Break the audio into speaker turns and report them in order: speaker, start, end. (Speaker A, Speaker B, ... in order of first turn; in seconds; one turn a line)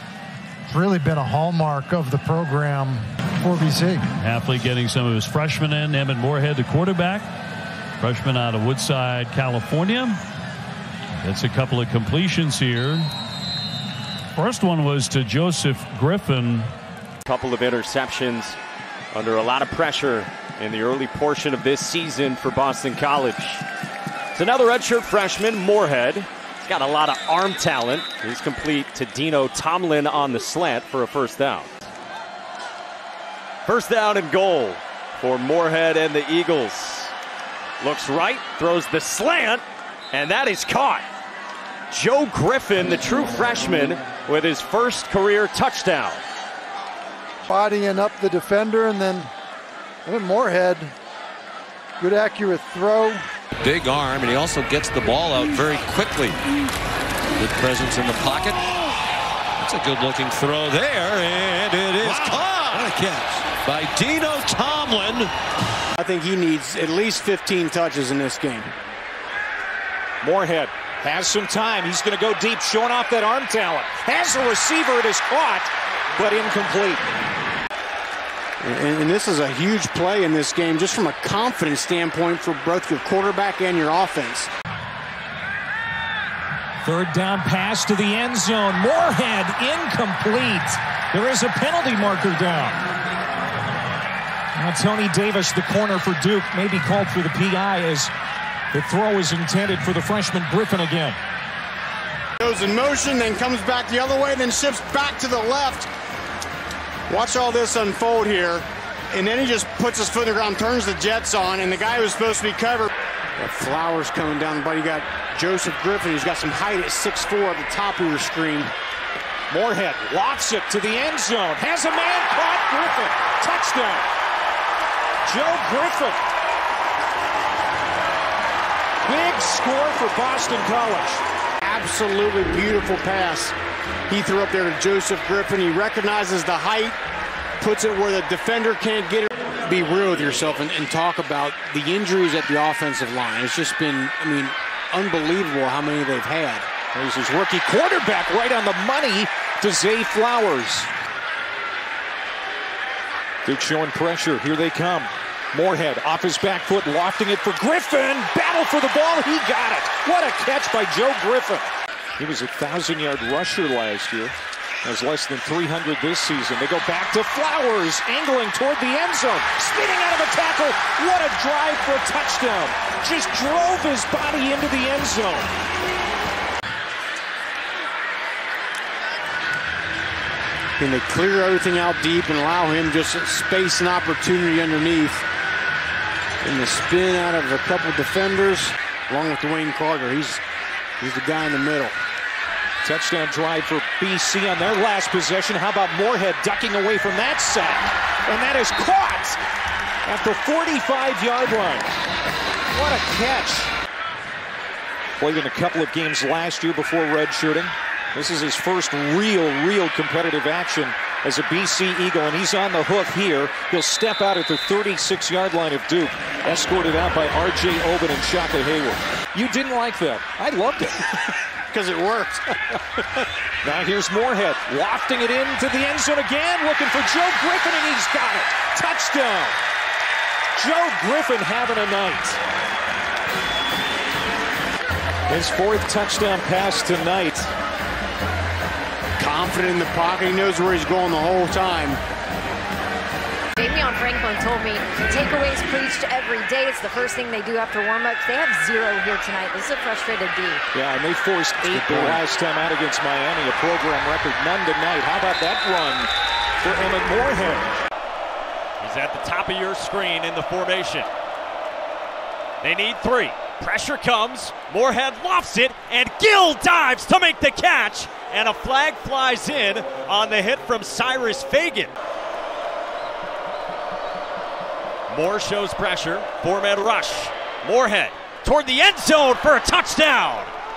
Speaker A: 0.7-4.1
Speaker B: 4.2-7.3
Speaker B: 8.0-10.2
Speaker B: 11.2-13.1
Speaker B: 14.3-16.7
Speaker C: 17.2-18.6
Speaker C: 19.1-23.6
Speaker C: 24.3-31.7
Speaker C: 33.7-37.1
Speaker C: 37.8-41.0
Speaker C: 41.9-46.2
Speaker A: 47.5-49.3
Speaker A: 50.0-50.9
Speaker A: 52.0-53.2
Speaker D: 53.6-56.4
Speaker D: 57.4-58.7
Speaker D: 59.6-65.3
Speaker E: 66.0-68.7
Speaker F: 70.2-77.0
Speaker E: 78.6-84.5
Speaker F: 86.8-92.8
Speaker F: 94.6-98.1
Speaker F: 98.7-101.2
Speaker E: 102.4-105.9
Speaker E: 107.1-118.7
Speaker F: 119.5-124.0
Speaker F: 125.3-126.2
Speaker F: 129.0-131.2
Speaker E: 131.6-133.5
Speaker E: 134.1-137.0
Speaker E: 137.6-146.7
Speaker F: 146.9-150.9
Speaker F: 153.4-161.7
Speaker F: 162.2-175.5
Speaker E: 180.8-185.2
Speaker E: 186.4-190.4
Speaker E: 191.0-191.9
Speaker F: 192.8-199.4
Speaker F: 200.1-201.9
Speaker F: 202.7-203.7
Speaker F: 205.2-221.0
Speaker E: 221.7-222.4
Speaker F: 223.6-229.5
Speaker F: 230.6-232.4
Speaker F: 235.3-237.5
Speaker E: 239.2-242.0
Speaker G: 243.6-250.6
Speaker F: 250.7-256.1
Speaker F: 256.6-257.8
Speaker C: 258.8-261.1
Speaker C: 262.6-271.9
Speaker C: 275.1-280.5